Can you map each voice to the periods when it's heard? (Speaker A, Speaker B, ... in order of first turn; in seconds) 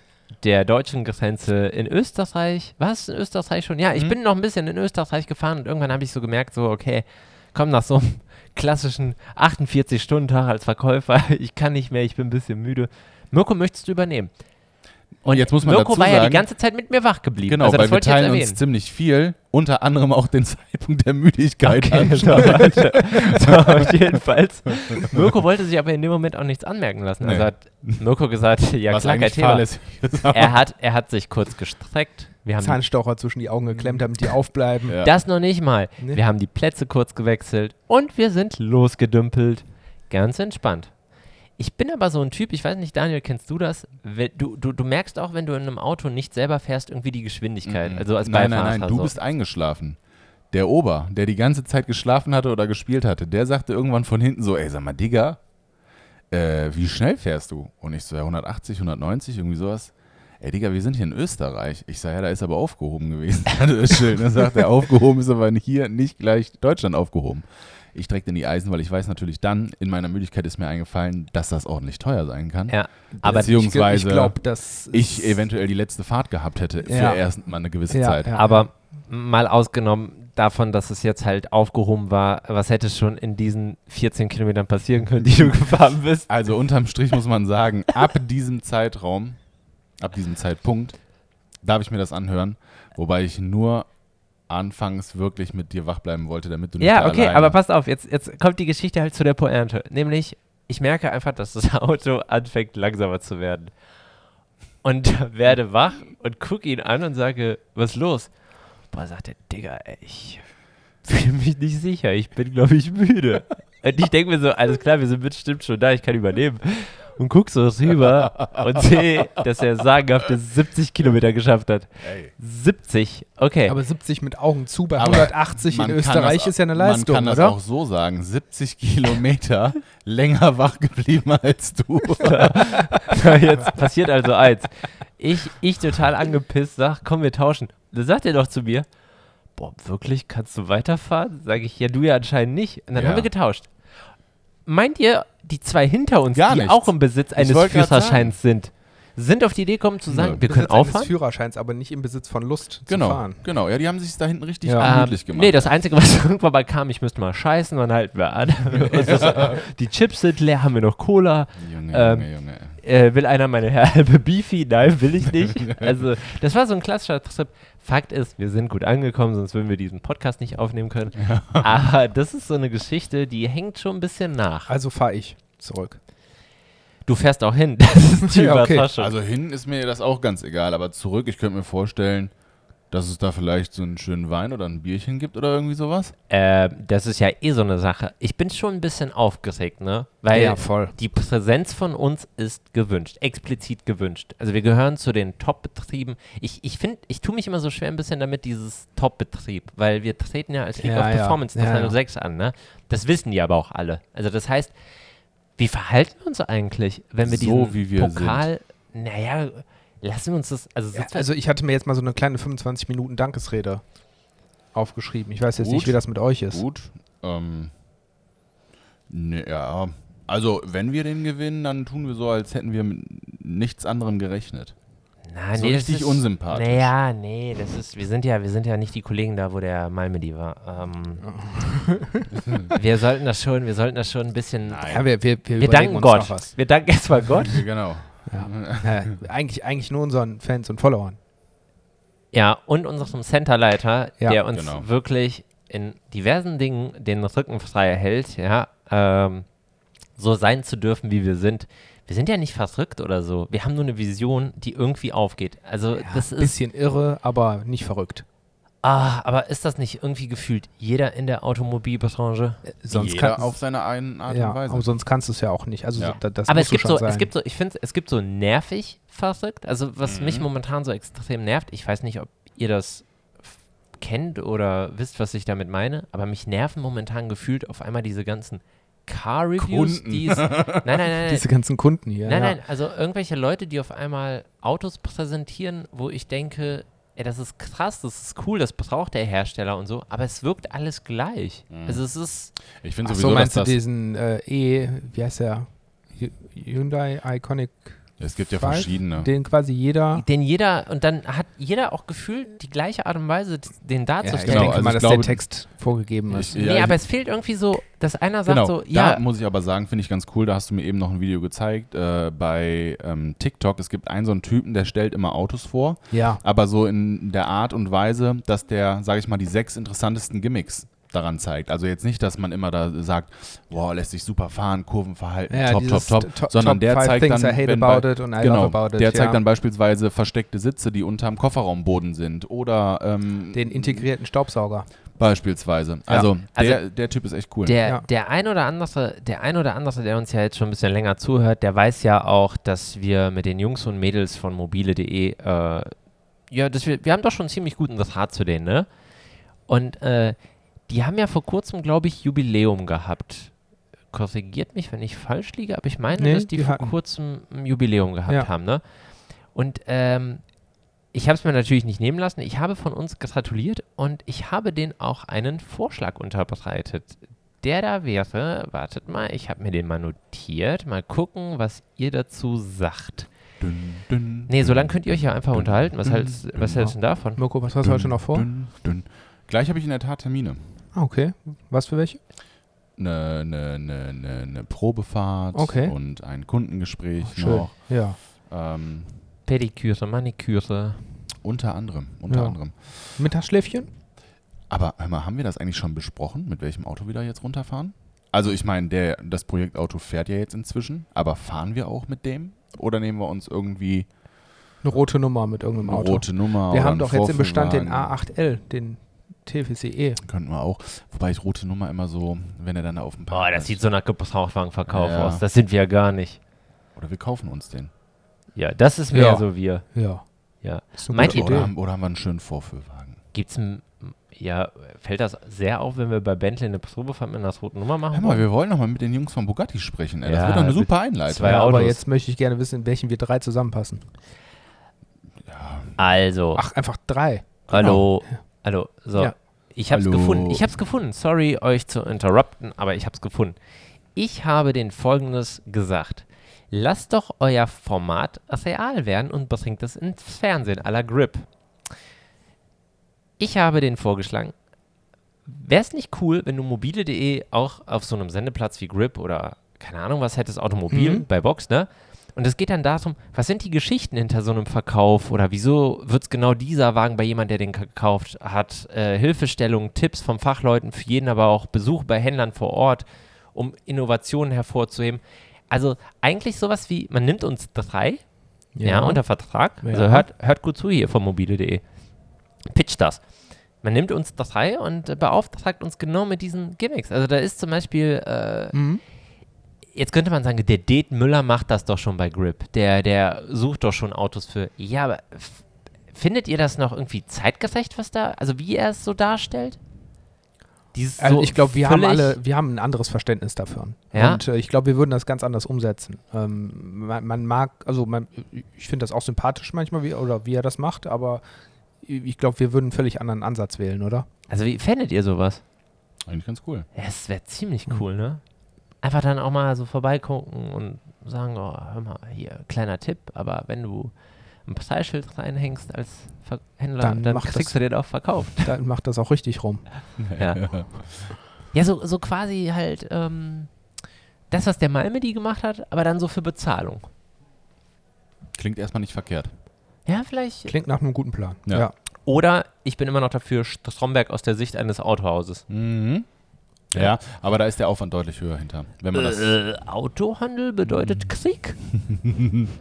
Speaker A: 0.4-14.3, 15.2-18.6, 21.6-29.7, 30.3-32.8, 34.9-40.9, 41.6-49.1, 72.7-73.5, 78.3-86.3, 96.8-103.7, 104.8-108.3, 108.9-110.4, 111.0-123.8, 132.2-138.9, 139.6-143.7, 144.7-151.1, 154.8-174.7, 177.1-179.1, 186.3-204.7, 205.6-211.3, 225.3-231.3, 232.7-235.1, 235.6-237.6, 242.3-249.5, 250.2-256.6, 258.8-262.6, 266.5-273.1, 274.0-281.5, 282.2-292.5, 300.1-304.8, 306.5-309.2, 336.5-336.9, 337.6-345.9, 346.5-348.9, 349.7-350.4, 350.9-353.5, 354.1-358.8, 359.5-360.4, 361.1-373.3, 374.5-377.4, 389.5-391.1, 413.3-416.4, 418.6-419.9, 420.6-421.6, 423.3-428.5, 430.2-432.0, 436.0-436.6, 437.7-443.6, 444.1-451.5, 453.4-454.5, 455.5-478.2, 478.8-481.8, 482.7-483.2, 483.8-488.8, 489.9-499.8, 500.9-502.4, 504.1-504.4, 514.5-515.6, 517.0-518.4, 519.0-524.1, 524.7-528.7, 530.4-530.6, 531.7-533.7, 534.5-537.1, 540.1-540.8, 542.3-545.6, 549.1-551.9
Speaker B: 15.2-16.5, 17.5-24.0, 27.2-28.0, 28.9-30.6, 34.9-35.1, 47.7-50.0, 50.5-55.4, 56.3-78.3, 86.3-89.4, 90.0-91.0, 91.6-93.9, 94.5-97.6, 122.0-122.3, 125.0-133.5, 142.9-143.3, 146.3-148.3, 150.1-150.4, 152.9-155.7, 158.8-159.6, 161.6-162.8, 171.2-171.8, 179.0-182.3, 182.9-186.1, 207.2-208.5, 215.5-217.7, 219.1-224.8, 225.6-226.9, 232.4-232.8, 234.7-235.1, 237.4-239.1, 244.5-244.9, 262.9-264.9, 270.0-270.5, 279.6-281.1, 291.7-292.0, 292.8-293.8, 298.2-299.3, 304.5-305.4, 306.3-307.0, 308.5-334.1, 335.1-337.8, 373.6-377.0, 377.8-380.6, 383.0-389.2, 391.4-393.2, 394.7-404.1, 405.8-408.1, 410.2-413.8, 414.9-415.4, 417.0-417.9, 421.2-423.2, 428.1-431.7, 435.4-436.0, 437.7-438.1, 439.9-440.7, 516.3-516.9, 530.2-531.3, 538.6-539.5, 545.7-546.3, 546.9-549.5, 550.9-551.2
Speaker C: 32.6-35.0, 73.1-75.5, 76.8-78.7, 123.7-127.6, 150.4-153.5, 154.7-155.0, 174.7-176.0, 178.2-178.9, 190.3-190.9, 200.8-202.0, 210.9-213.8, 214.7-216.6, 231.2-232.3, 234.9-236.5, 238.3-241.2, 255.9-258.2, 262.7-263.6, 264.3-267.3, 281.2-282.6, 293.0-300.2, 304.2-306.6, 316.1-316.4, 325.5-329.4, 333.5-334.9, 356.2-356.9, 377.4-378.5, 380.9-382.2, 385.5-385.9, 387.2-388.2, 392.3-393.9, 404.8-410.2, 419.1-420.2, 421.0-421.7, 431.4-434.0, 436.6-438.4, 460.9-461.3, 478.8-479.2, 479.8-480.3, 488.7-489.0, 501.2-511.4, 512.0-514.3, 527.0-527.8, 528.6-529.8, 540.7-541.9